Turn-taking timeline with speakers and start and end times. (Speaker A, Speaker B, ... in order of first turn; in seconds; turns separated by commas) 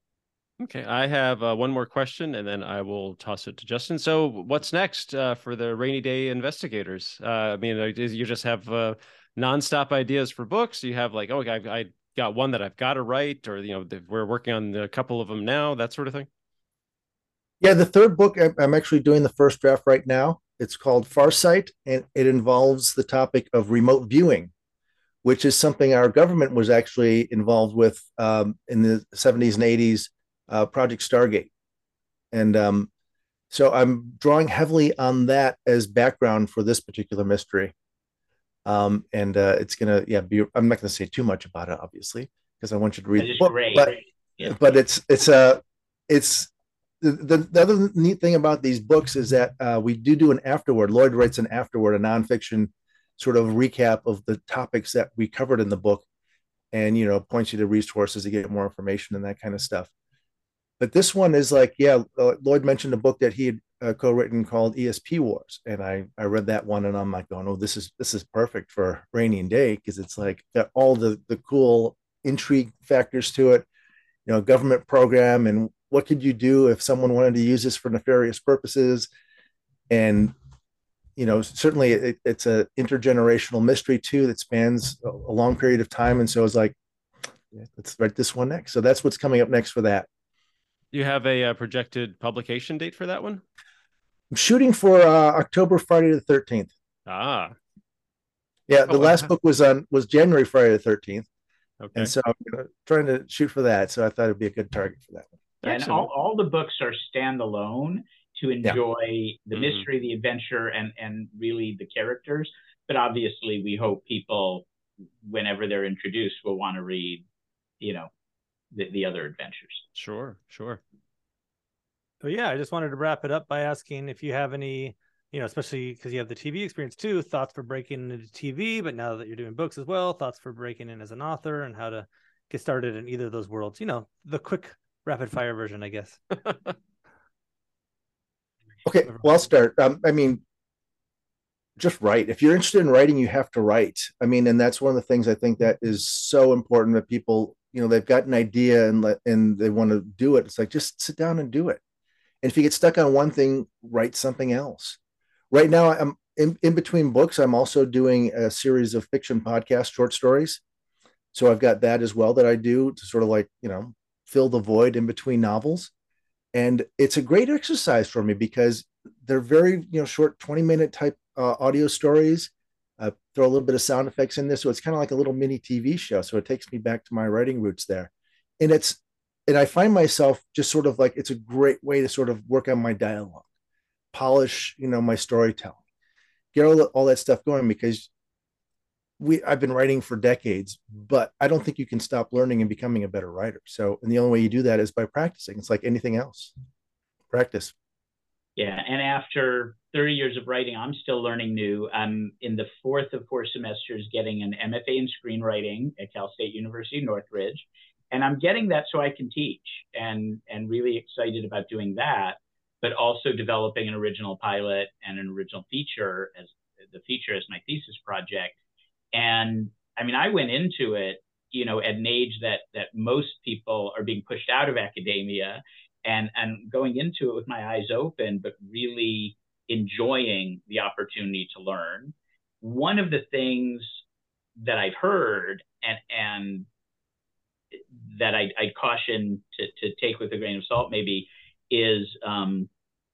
Speaker A: 0.6-16.3, Speaker B: 17.6-24.5, Speaker B: 25.2-31.5, Speaker B: 32.3-32.9, Speaker B: 33.5-37.7, Speaker B: 38.6-46.5, Speaker C: 43.2-44.5, Speaker B: 47.0-56.0, Speaker B: 56.7-59.9, Speaker B: 60.8-73.6, Speaker B: 74.2-79.1, Speaker B: 79.9-80.3, Speaker B: 81.2-86.8, Speaker B: 87.5-90.1, Speaker A: 90.9-93.4, Speaker B: 94.3-96.7, Speaker A: 97.1-97.5, Speaker B: 98.7-101.3, Speaker A: 98.9-99.2, Speaker A: 101.8-102.1, Speaker B: 101.9-105.3, Speaker A: 105.6-106.1, Speaker C: 105.7-114.7, Speaker A: 109.5-109.8, Speaker C: 115.2-117.2, Speaker C: 117.8-118.1, Speaker C: 118.7-119.8, Speaker A: 119.9-120.8, Speaker D: 122.2-136.2, Speaker B: 138.8-140.4, Speaker B: 141.8-151.8, Speaker B: 152.4-155.0, Speaker B: 155.5-160.6, Speaker B: 161.3-165.9, Speaker B: 166.5-183.4, Speaker B: 184.1-185.8, Speaker B: 186.5-188.1, Speaker B: 189.2-196.5, Speaker B: 197.3-197.7, Speaker C: 198.6-218.6, Speaker C: 219.1-234.0, Speaker C: 234.6-236.7, Speaker C: 238.1-242.7